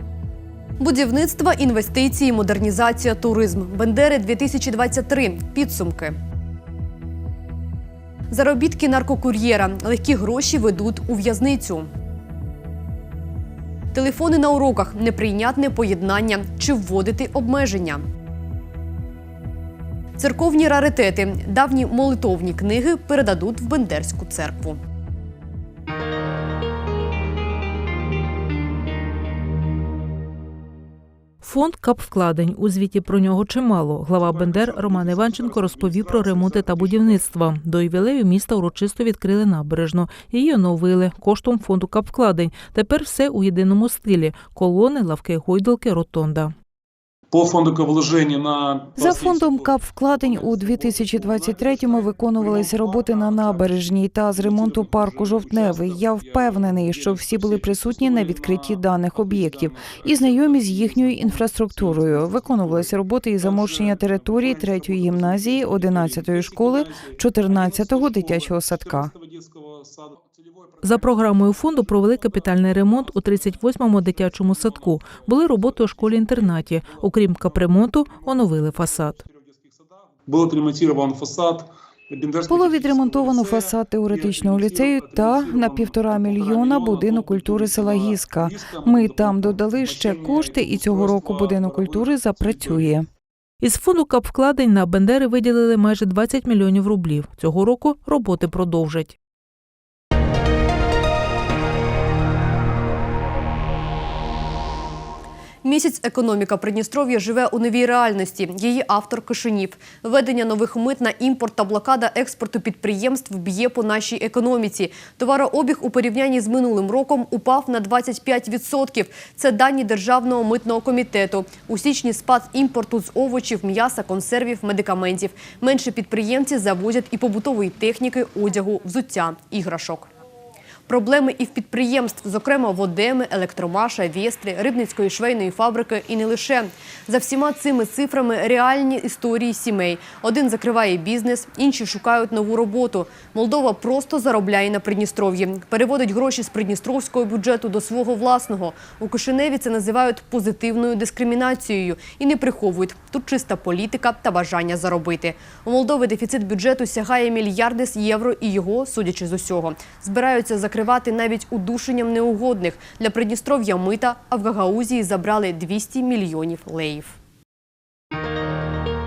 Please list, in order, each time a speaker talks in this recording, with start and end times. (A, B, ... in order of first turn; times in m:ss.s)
0:00.8-0:06.2 A
0:08.3-0:11.9 A
0:13.9-0:18.0 A
0:20.2-0:24.8 A
0:31.4-0:46.5 B
0:34.3-0:37.1 C
0:47.3-0:49.7 C
0:49.0-1:09.1 D
0:50.4-0:53.6 C
0:54.7-1:01.2 C
1:01.9-1:02.9 C
1:03.5-1:07.0 C
1:07.7-1:10.2 C
1:10.8-1:19.2 B
1:20.3-1:32.9 C
1:22.5-1:33.1 D
1:33.6-1:39.2 B
1:45.6-2:10.1 A
2:10.9-2:47.1 A